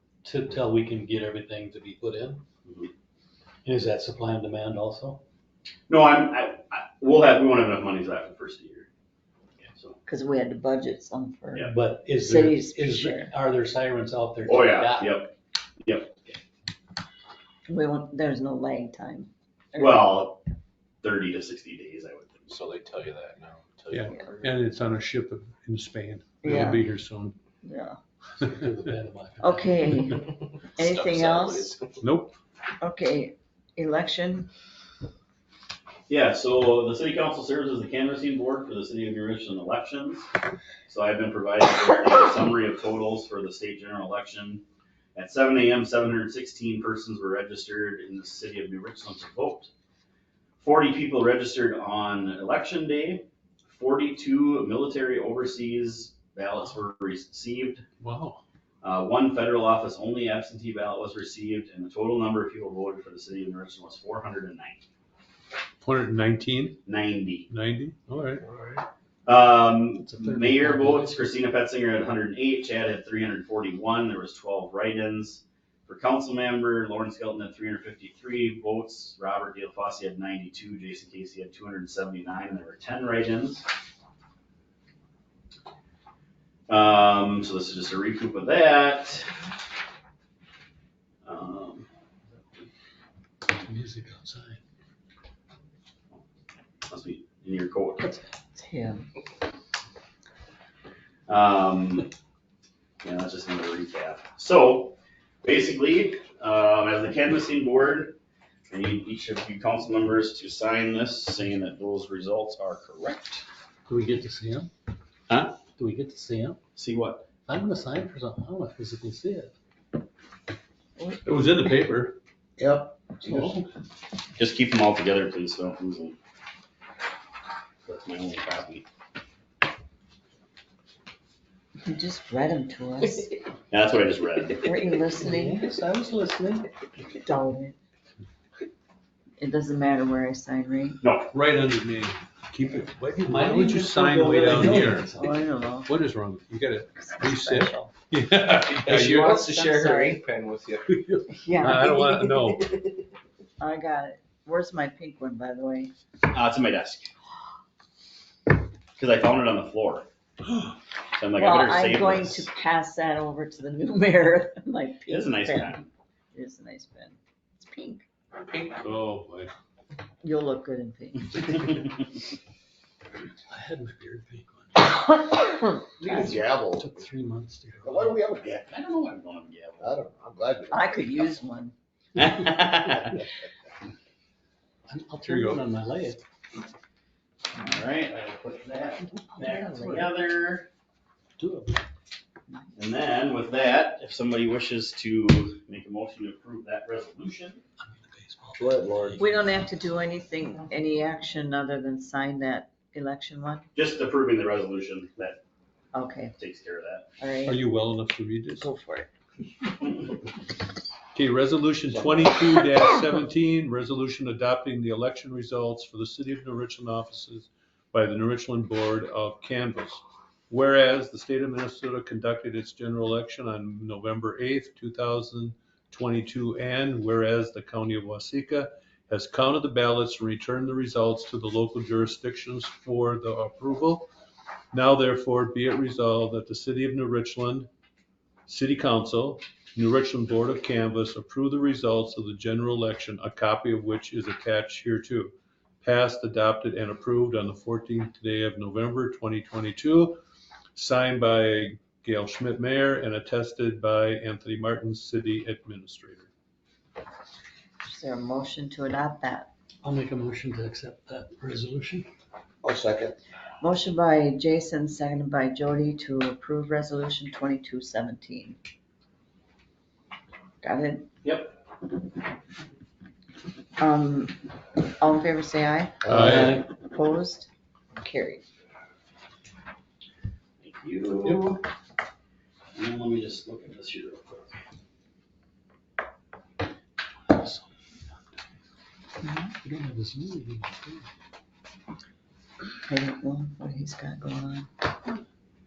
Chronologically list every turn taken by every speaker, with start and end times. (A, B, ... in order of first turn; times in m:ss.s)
0:00.2-0:02.4 A
0:02.6-0:02.9 B
0:03.6-0:05.2 A
0:05.9-0:08.9 B
0:09.7-0:10.0 B
0:10.1-0:13.3 C
0:11.7-0:15.2 A
0:14.4-0:16.4 B
0:17.7-0:20.2 C
0:19.8-0:20.4 B
0:21.0-0:22.5 B
0:22.5-0:24.6 D
0:23.9-0:27.4 E
0:26.4-0:26.9 C
0:27.6-0:28.0 C
0:28.4-0:29.9 A
0:29.4-0:31.8 C
0:30.4-0:32.0 D
0:32.0-0:32.4 E
0:32.8-0:34.5 C
0:36.1-0:40.3 B
0:40.9-0:44.6 B
0:45.2-0:49.7 B
0:50.6-0:57.8 B
0:58.0-0:58.4 E
0:58.8-1:04.8 B
1:05.8-1:06.8 E
1:06.9-1:07.5 B
1:07.5-1:08.4 E
1:09.3-1:23.7 B
1:10.1-1:11.3 A
1:26.7-1:29.3 B
1:31.2-1:31.9 B
1:33.6-1:34.6 A
1:36.9-1:38.1 B
1:38.6-1:39.1 C
1:41.3-1:42.1 B
1:43.0-1:48.2 B
1:48.7-1:53.4 B
1:53.9-1:54.7 A
1:55.3-1:55.6 B
1:55.8-1:56.6 A
1:56.8-1:57.3 B
1:57.5-1:59.5 A
2:01.0-2:01.2 C
2:01.2-2:02.2 E
2:02.6-2:03.6 F
2:03.3-2:03.6 E
2:04.4-2:06.2 B
2:07.8-2:08.8 B
2:11.8-2:13.4 C
2:13.7-2:14.7 B
2:14.6-2:15.6 C
2:15.2-2:16.7 A
2:17.0-2:17.8 C
2:19.4-2:21.0 C
2:21.0-2:21.3 B
2:21.3-2:25.1 E
2:23.2-2:25.4 A
2:25.2-2:25.9 C
2:25.9-2:29.5 E
2:27.0-2:27.9 C
2:28.5-2:31.2 D
2:29.2-2:30.2 C
2:30.9-2:32.8 E
2:31.3-2:32.2 C
2:33.6-2:35.9 C
2:36.3-2:37.1 B
2:39.0-2:40.1 B
2:41.2-2:42.5 B
2:41.4-2:45.8 C
2:45.1-2:45.9 B
2:46.3-2:48.0 C
2:48.8-2:49.5 E
2:50.2-2:52.0 C
2:53.5-2:55.4 A
2:56.0-2:57.0 F
2:56.0-2:58.2 A
2:57.8-2:58.6 F
2:58.4-3:00.0 B
2:59.8-3:01.4 F
3:00.7-3:01.7 C
3:02.2-3:03.2 B
3:04.9-3:06.2 A
3:05.2-3:05.6 E
3:07.5-3:10.7 B
3:09.3-3:10.1 C
3:11.4-3:11.8 A
3:12.8-3:17.6 B
3:17.8-3:19.2 A
3:18.6-3:19.2 F
3:19.2-3:23.7 C
3:23.8-3:25.4 B
3:25.9-3:26.4 C
3:26.4-3:27.1 B
3:27.2-3:27.6 C
3:27.4-3:28.7 E
3:28.6-3:29.1 C
3:31.1-3:54.1 E
3:54.7-3:57.7 E
3:58.5-4:10.2 E
4:10.8-4:16.3 E
4:17.8-4:19.5 C
4:19.8-4:22.1 A
4:22.6-4:23.2 F
4:23.6-4:28.6 C
4:30.6-4:31.1 C
4:33.8-4:38.4 C
4:36.0-4:36.5 E
4:36.1-4:36.6 F
4:36.2-4:36.7 A
4:40.6-4:41.6 B
4:41.2-4:41.5 A
4:42.8-4:44.6 B
4:47.3-4:47.6 A
4:49.4-4:51.1 A
4:52.9-4:54.7 C